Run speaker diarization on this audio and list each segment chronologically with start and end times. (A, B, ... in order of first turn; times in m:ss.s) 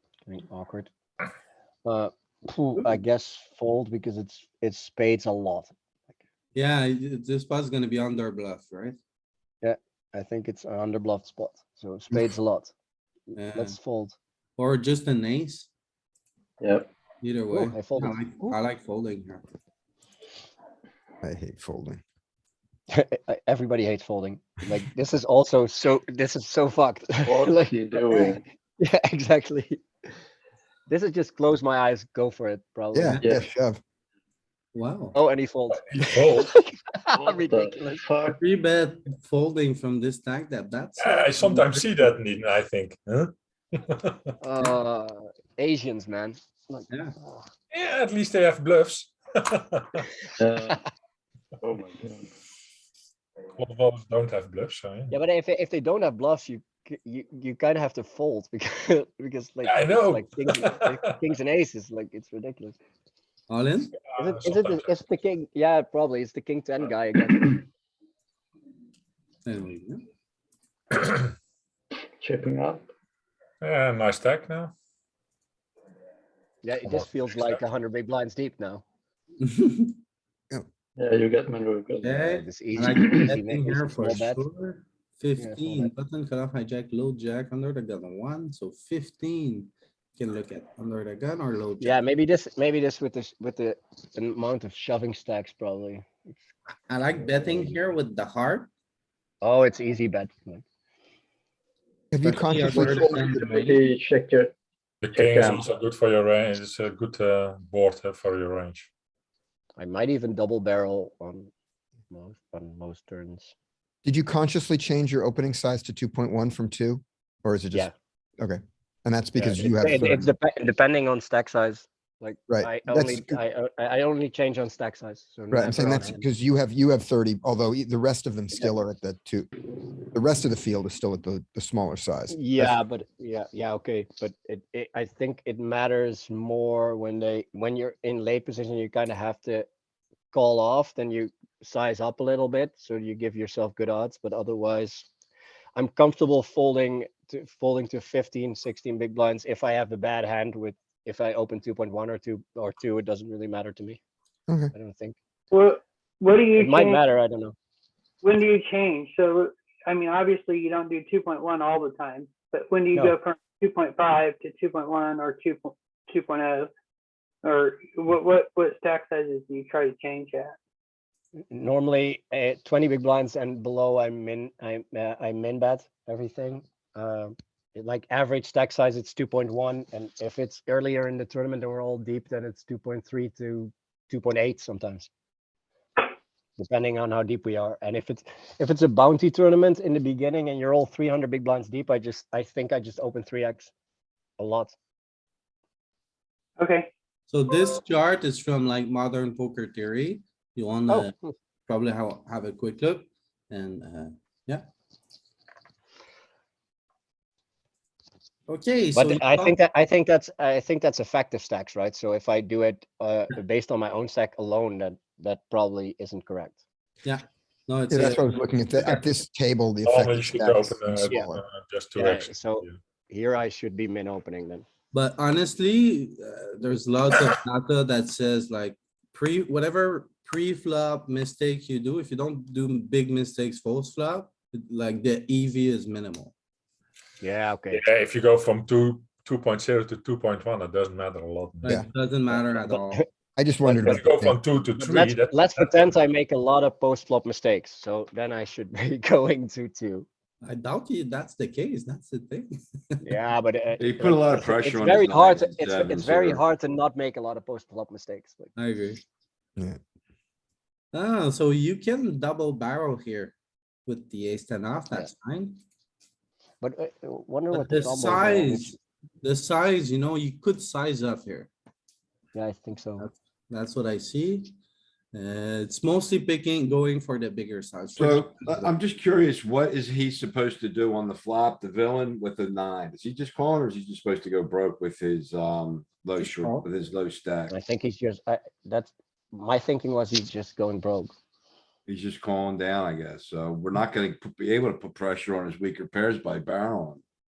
0:00.3-0:00.9 A
0:01.8-0:05.7 A
0:06.6-0:09.0 B
0:09.6-0:12.7 A
0:13.4-0:13.8 B
0:13.5-0:14.2 A
0:14.6-0:15.7 B
0:16.6-0:16.9 C
0:17.2-0:19.5 B
0:17.5-0:18.2 A
0:21.2-0:22.0 D
0:22.9-0:29.8 A
0:27.3-0:28.4 C
0:30.9-0:33.3 A
0:32.9-0:33.8 D
0:33.2-0:33.4 C
0:34.8-0:35.2 B
0:35.1-0:38.0 A
0:35.8-0:36.5 E
0:37.1-0:38.4 C
0:38.2-0:41.9 B
0:41.0-0:44.3 E
0:44.4-0:47.4 A
0:47.7-0:50.0 E
0:50.4-0:50.8 C
0:51.6-0:52.3 C
0:53.6-0:55.2 E
0:55.1-1:02.8 A
0:59.6-1:01.1 E
1:03.5-1:03.9 B
1:04.0-1:04.9 E
1:04.2-1:07.6 A
1:09.5-1:10.0 B
1:12.2-1:12.8 C
1:13.6-1:14.7 E
1:16.6-1:18.8 A
1:16.9-1:17.5 E
1:19.4-1:20.0 B
1:21.0-1:22.4 C
1:22.0-1:32.0 B
1:22.3-1:24.4 A
1:22.9-1:23.2 C
1:25.4-1:25.9 A
1:31.8-1:36.3 A
1:36.9-1:38.7 B
1:39.4-1:40.6 A
1:42.1-1:43.4 D
1:42.2-1:42.7 A
1:42.4-1:43.8 B
1:43.4-1:44.5 C
1:45.0-1:48.9 E
1:45.1-1:45.7 C
1:49.8-1:51.5 A
1:52.1-1:53.5 A
1:54.0-2:00.3 D
1:59.4-2:06.2 A
2:02.5-2:03.4 D
2:05.5-2:09.5 D
2:10.1-2:12.8 D
2:12.3-2:19.7 A
2:20.3-2:25.1 A
2:25.8-2:34.0 A
2:34.7-2:35.2 A
2:35.5-2:37.0 F
2:36.6-2:37.5 A
2:38.2-2:46.7 F
2:47.4-2:50.6 F
2:51.5-3:05.1 A
3:06.6-3:13.7 A
3:14.4-3:14.8 A
3:16.6-3:16.9 F
3:17.3-3:21.1 B
3:21.7-3:24.6 B
3:28.5-3:29.6 B
3:29.0-3:36.6 A
3:37.0-3:39.1 B
3:37.9-3:41.4 D
3:39.8-3:42.8 E
3:42.0-3:44.6 A
3:44.9-3:56.3 B
3:57.2-3:57.8 A
3:57.7-4:01.8 E
4:01.6-4:03.0 B
4:02.3-4:03.1 A
4:03.4-4:04.4 D
4:03.7-4:05.9 E
4:04.8-4:10.1 A
4:10.4-4:13.0 B
4:13.0-4:18.5 A
4:13.8-4:16.4 G
4:18.6-4:19.0 B
4:20.9-4:23.4 B
4:23.9-4:25.6 B
4:26.6-4:28.8 A
4:27.5-4:31.5 B
4:32.3-4:33.1 A
4:33.0-4:34.6 B
4:35.1-4:38.8 B
4:38.0-4:47.5 G
4:46.2-4:46.7 B
4:47.5-4:51.1 A
4:51.9-4:57.0 G